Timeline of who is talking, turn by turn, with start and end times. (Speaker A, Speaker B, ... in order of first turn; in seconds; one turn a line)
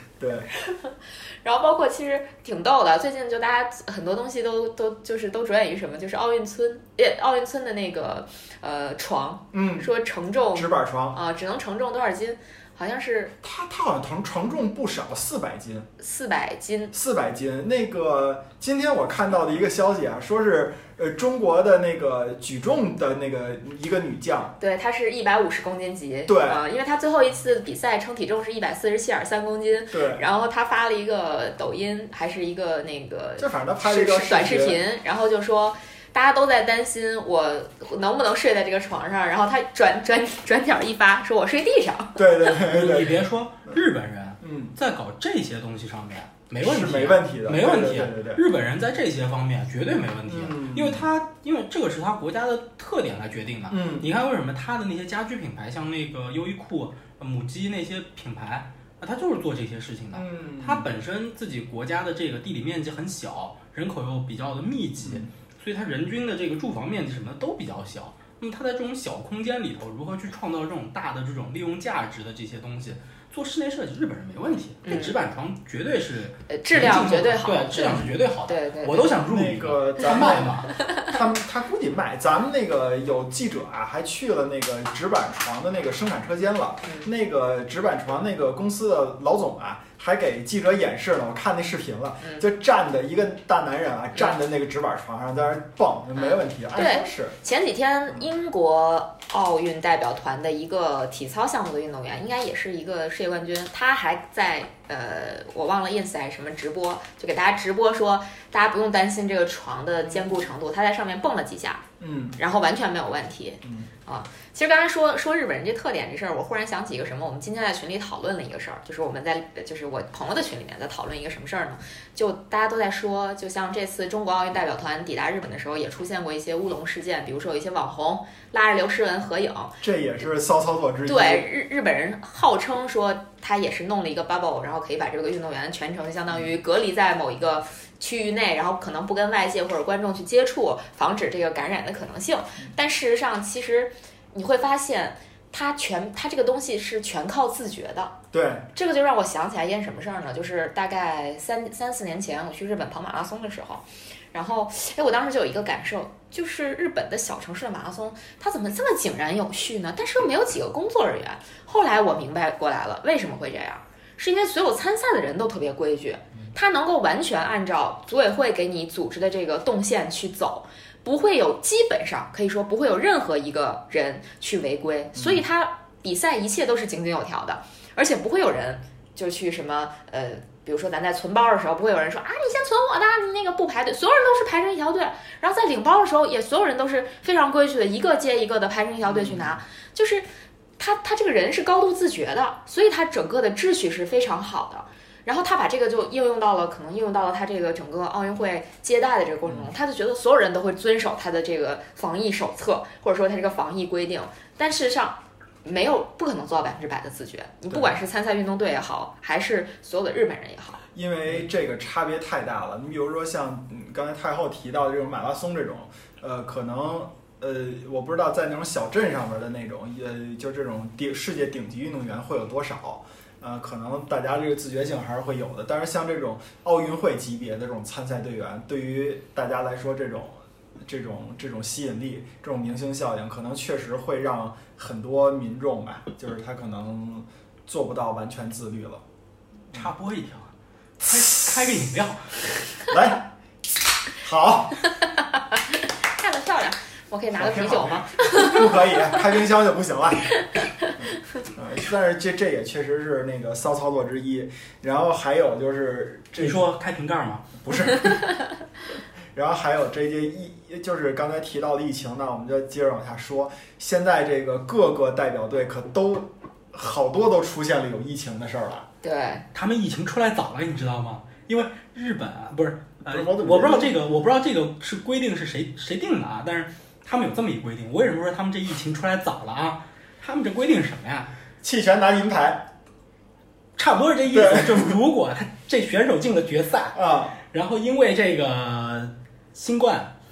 Speaker A: 0.2-0.5
Speaker B: 0.6-13.3
Speaker A: 9.5-9.9
Speaker A: 10.5-11.2
Speaker A: 13.4-15.9
Speaker B: 16.0-16.9
Speaker A: 16.9-24.6
Speaker B: 24.6-42.6
Speaker A: 26.2-26.6
Speaker A: 29.9-30.2
Speaker A: 33.4-34.8
Speaker A: 42.1-43.8
Speaker C: 42.6-80.7
Speaker A: 44.4-44.7
Speaker A: 46.6-48.4
Speaker A: 50.3-51.1
Speaker A: 53.7-54.1
Speaker A: 60.1-60.9
Speaker A: 65.0-65.3
Speaker B: 74.8-75.2
Speaker B: 76.5-79.2
Speaker A: 79.2-97.3
Speaker B: 86.8-87.1
Speaker B: 96.2-111.8
Speaker A: 112.0-112.4
Speaker B: 112.4-129.8
Speaker A: 113.6-113.9
Speaker A: 129.8-131.4
Speaker B: 131.1-148.2
Speaker A: 148.3-148.7
Speaker B: 148.7-190.2
Speaker A: 175.1-175.4
Speaker A: 189.1-189.6
Speaker B: 190.8-210.8
Speaker A: 207.7-207.9
Speaker A: 210.9-239.0
Speaker C: 239.7-242.6
Speaker A: 242.9-243.3
Speaker A: 244.2-244.8
Speaker B: 246.0-249.2
Speaker A: 247.3-250.4
Speaker A: 251.0-256.6
Speaker C: 256.4-257.6
Speaker A: 257.6-258.2
Speaker A: 259.3-268.9
Speaker B: 269.0-269.4
Speaker C: 269.5-281.3
Speaker A: 273.1-274.0
Speaker A: 281.6-282.7
Speaker C: 283.8-287.0
Speaker A: 284.3-284.9
Speaker A: 286.9-287.4
Speaker C: 287.5-290.1